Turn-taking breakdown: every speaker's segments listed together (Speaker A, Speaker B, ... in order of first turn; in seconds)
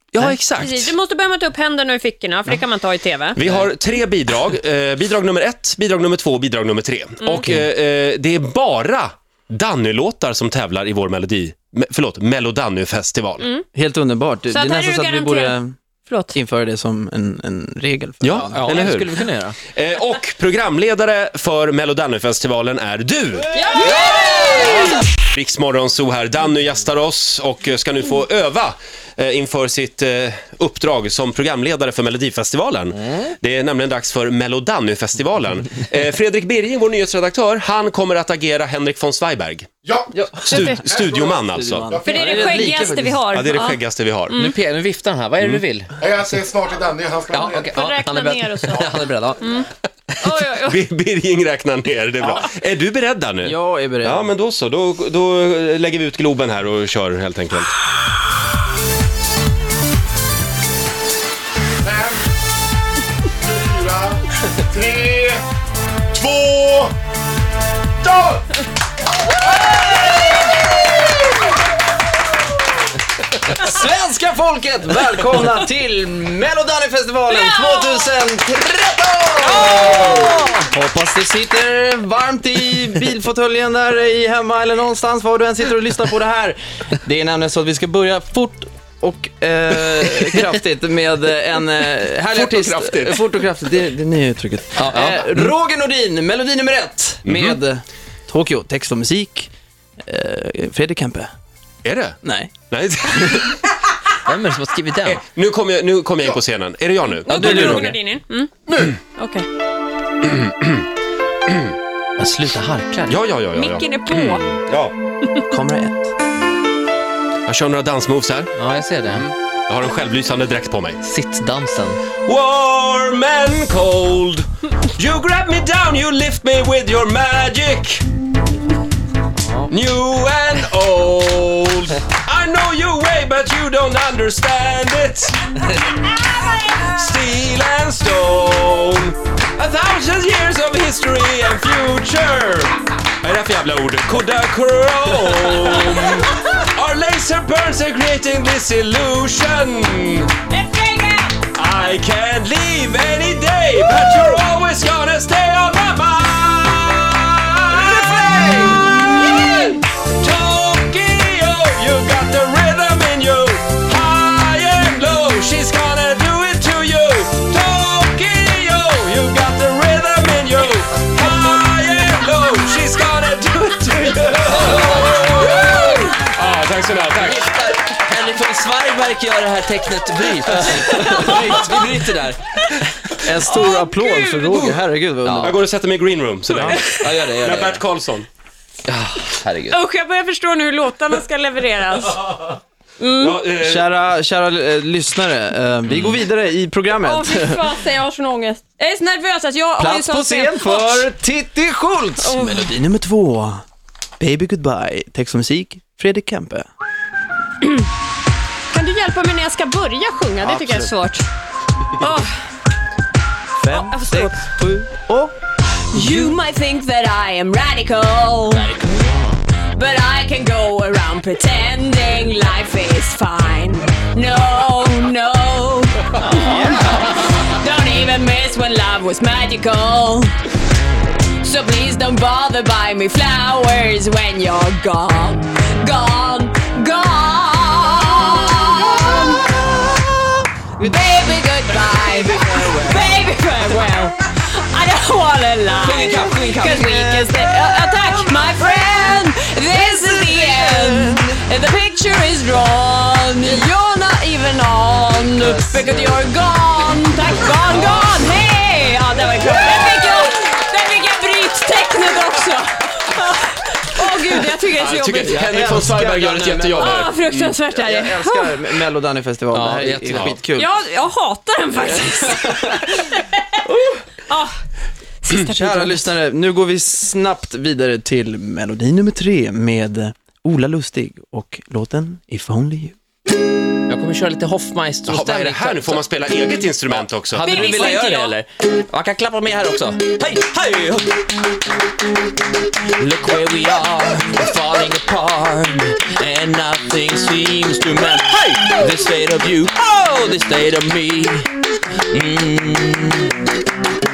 Speaker A: 0.1-0.9, 3.4-13.5, 18.2-19.2, 19.7-23.5, 24.4-39.7, 40.4-42.4, 43.3-44.4, 50.6-57.7, 92.3-93.3, 97.2-97.6, 101.8-102.2, 102.7-103.6, 105.0-108.0, 110.2-110.9, 111.5-111.7, 113.1-114.9, 117.5-118.5, 119.1-121.0, 122.2-128.0, 129.7-135.6, 136.5-150.3, 151.5-177.5, 185.4-188.3, 193.2-193.9, 264.8-267.6, 270.1-270.4, 285.1-288.0
Speaker B: 0.5-3.4, 13.4-13.7, 14.5-16.4, 23.5-25.0, 40.5-40.8, 42.0-44.6, 47.7-49.7, 50.2-50.8, 77.3-78.1, 79.4-80.6, 107.1-108.6, 109.1-109.5, 113.5-114.5, 150.5-151.4, 180.8-181.8, 183.5-184.7, 186.6-187.0, 189.7-193.4, 197.0-201.1, 202.2-202.7, 208.7-211.3, 212.0-212.3, 213.7-214.4, 215.9-218.7, 219.7-230.3, 231.4-239.4, 240.8-265.5, 266.8-268.9, 270.5-273.4, 274.3-274.6, 275.2-276.1, 287.4-288.4
Speaker C: 13.8-15.8, 16.3-18.6, 40.1-40.8, 41.5-43.2, 53.5-54.2, 73.5-99.5, 100.0-101.3, 102.2-102.5, 115.5-116.1, 183.2-185.5, 193.7-197.6, 199.8-203.6, 204.2-206.7, 210.5-210.9, 213.6-215.3, 242.4-243.0, 246.8-248.3, 250.1-250.4, 255.5-256.1, 265.3-266.9, 267.9-270.6, 273.7-273.9, 275.5-283.0
Speaker D: 18.5-19.6, 23.9-24.4, 44.4-45.9, 47.3-49.4, 94.8-95.5, 104.3-105.2, 107.3-107.8, 112.2-113.2, 118.5-119.3, 121.0-122.0, 174.7-175.6, 177.2-182.4, 185.2-185.6, 186.9-187.8, 188.9-189.8, 245.8-247.1, 269.5-270.5, 283.9-286.0, 287.3-291.1, 293.0-301.5, 302.1-303.4
Speaker E: 39.9-40.1, 40.9-42.8, 46.0-47.9, 61.9-62.2, 63.6-65.4, 66.1-66.9, 68.0-68.4